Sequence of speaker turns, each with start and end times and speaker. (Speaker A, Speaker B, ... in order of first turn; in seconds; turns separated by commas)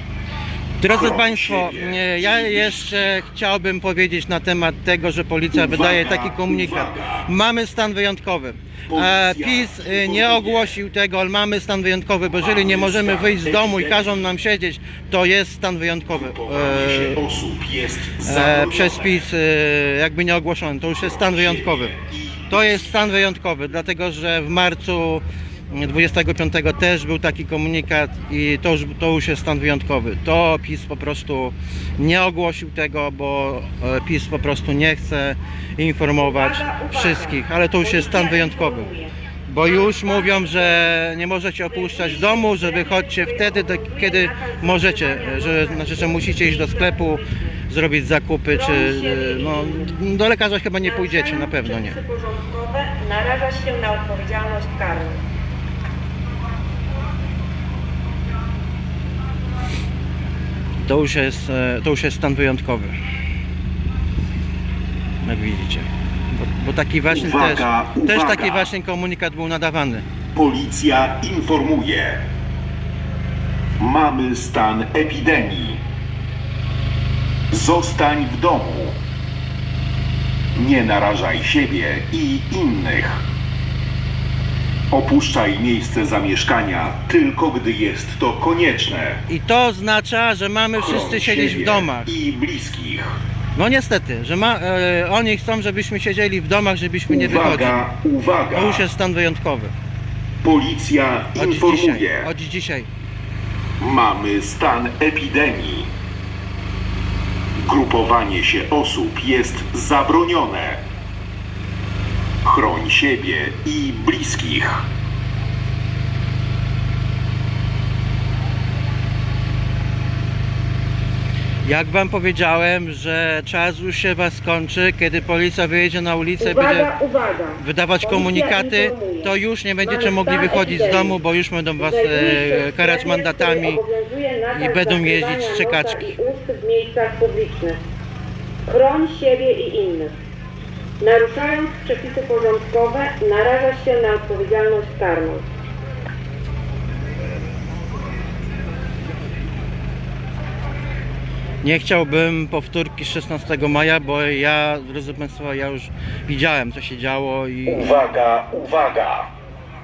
Speaker A: 0.8-17.2, Speaker B: 0.8-3.3, Speaker B: 5.5-7.3, Speaker B: 8.9-10.8, Speaker B: 12.3-14.1, Speaker B: 16.1-19.2, Speaker A: 18.2-21.9, Speaker B: 21.0-22.9, Speaker A: 22.5-38.9, Speaker C: 36.2-39.1, Speaker A: 39.5-52.0, Speaker C: 39.6-40.9, Speaker C: 41.7-47.6, Speaker C: 48.5-49.9, Speaker C: 50.8-55.2, Speaker A: 60.8-63.0, Speaker A: 65.2-70.0, Speaker B: 67.1-68.7, Speaker B: 70.3-72.2, Speaker B: 73.8-75.8, Speaker B: 77.5-79.0, Speaker B: 80.5-83.3, Speaker B: 84.9-89.2, Speaker A: 89.3-92.1, Speaker B: 90.8-93.2, Speaker A: 93.5-97.9, Speaker B: 97.1-98.8, Speaker A: 98.5-99.7, Speaker B: 100.4-102.3, Speaker A: 101.4-102.9, Speaker B: 103.8-105.9, Speaker B: 107.5-110.8, Speaker B: 112.4-114.9, Speaker A: 121.6-126.9, Speaker C: 126.4-131.2, Speaker A: 127.6-133.8, Speaker C: 131.8-137.8, Speaker A: 134.5-136.1, Speaker C: 138.7-140.1, Speaker C: 141.0-145.4, Speaker A: 151.6-158.0, Speaker B: 157.7-159.3